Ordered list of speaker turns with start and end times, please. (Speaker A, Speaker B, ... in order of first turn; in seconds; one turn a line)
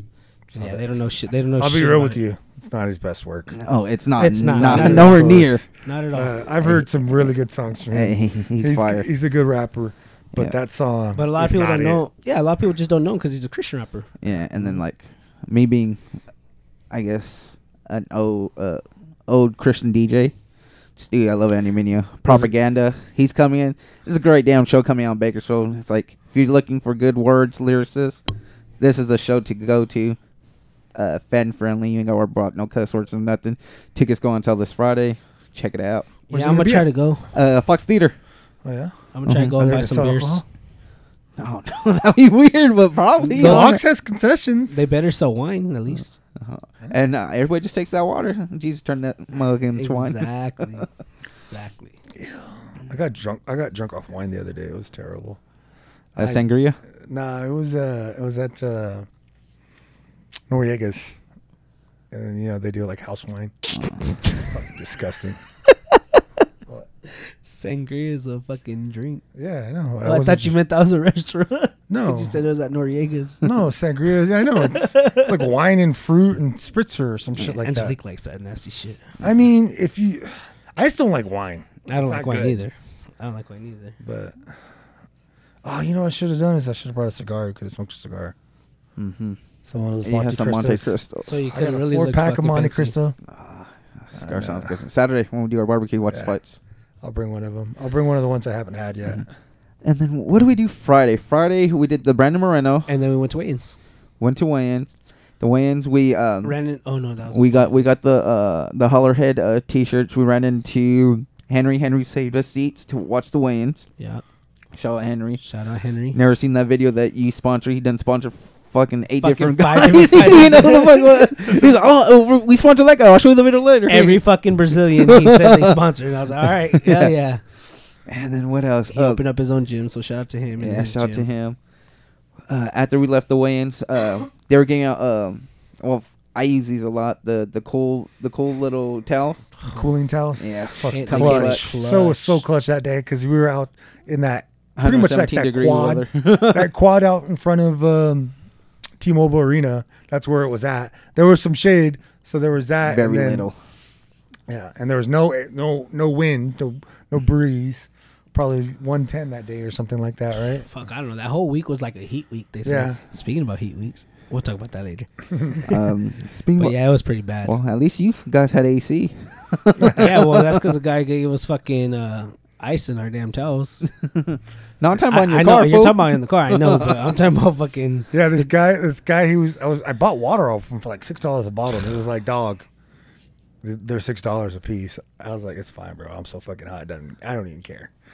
Speaker A: 0.5-1.0
Speaker B: 0.6-2.2
Speaker A: 1.6-3.6
Speaker C: 3.6-5.6
Speaker B: 4.2-6.4
Speaker A: 4.5-5.6
Speaker A: 6.1-12.0
Speaker C: 7.9-9.1
Speaker B: 11.1-14.1
Speaker C: 14.2-16.0
Speaker C: 16.9-20.3
Speaker C: 21.0-28.2
Speaker C: 28.8-30.2
Speaker C: 30.9-36.1
Speaker B: 36.3-37.3
Speaker A: 36.3-36.9
Speaker C: 37.3-38.1
Speaker A: 38.6-38.9
Speaker B: 39.1-40.4
Speaker C: 39.3-39.6
Speaker A: 39.6-40.4
Speaker C: 41.4-43.8
Speaker B: 43.2-43.8
Speaker A: 43.3-44.9
Speaker B: 44.7-46.2
Speaker C: 46.4-50.3
Speaker B: 49.8-52.0
Speaker A: 52.1-55.4
Speaker A: 56.1-56.4
Speaker C: 56.2-56.8
Speaker A: 57.1-59.1
Speaker A: 60.5-61.1
Speaker A: 62.1-63.9
Speaker A: 64.5-65.4
Speaker B: 67.4-69.2
Speaker A: 69.3-70.5
Speaker B: 70.0-73.4
Speaker A: 71.9-72.4
Speaker A: 73.4-78.0
Speaker B: 74.6-75.4
Speaker B: 77.4-79.1
Speaker A: 79.2-82.6
Speaker B: 81.9-84.0
Speaker A: 84.0-84.4
Speaker A: 85.6-88.3
Speaker C: 89.0-89.4
Speaker A: 89.6-91.0
Speaker C: 90.0-91.4
Speaker B: 91.2-92.9
Speaker A: 91.5-93.2
Speaker C: 93.3-96.6
Speaker A: 94.2-94.8
Speaker A: 97.0-99.3
Speaker C: 99.8-102.9
Speaker B: 102.9-103.8
Speaker C: 104.2-106.6
Speaker B: 106.4-107.8
Speaker C: 107.3-113.9
Speaker B: 114.0-114.2
Speaker C: 114.7-115.4
Speaker B: 115.4-116.2
Speaker C: 116.1-124.2
Speaker B: 119.2-121.2
Speaker B: 123.9-127.4
Speaker C: 125.0-125.8
Speaker C: 126.7-127.1
Speaker C: 128.1-129.2
Speaker B: 128.9-131.3
Speaker C: 130.6-131.6
Speaker C: 132.5-139.5
Speaker A: 139.7-148.3
Speaker C: 140.4-141.7
Speaker B: 140.9-142.4
Speaker C: 144.8-146.7
Speaker A: 149.0-153.5
Speaker C: 152.8-153.6
Speaker A: 154.5-160.7
Speaker B: 160.6-165.8
Speaker A: 162.6-163.0
Speaker C: 165.7-166.7
Speaker B: 166.6-167.6
Speaker C: 167.4-170.6
Speaker A: 169.8-170.1
Speaker B: 169.9-173.9
Speaker C: 174.0-177.0
Speaker B: 175.0-178.5
Speaker A: 178.1-182.7
Speaker A: 183.6-187.9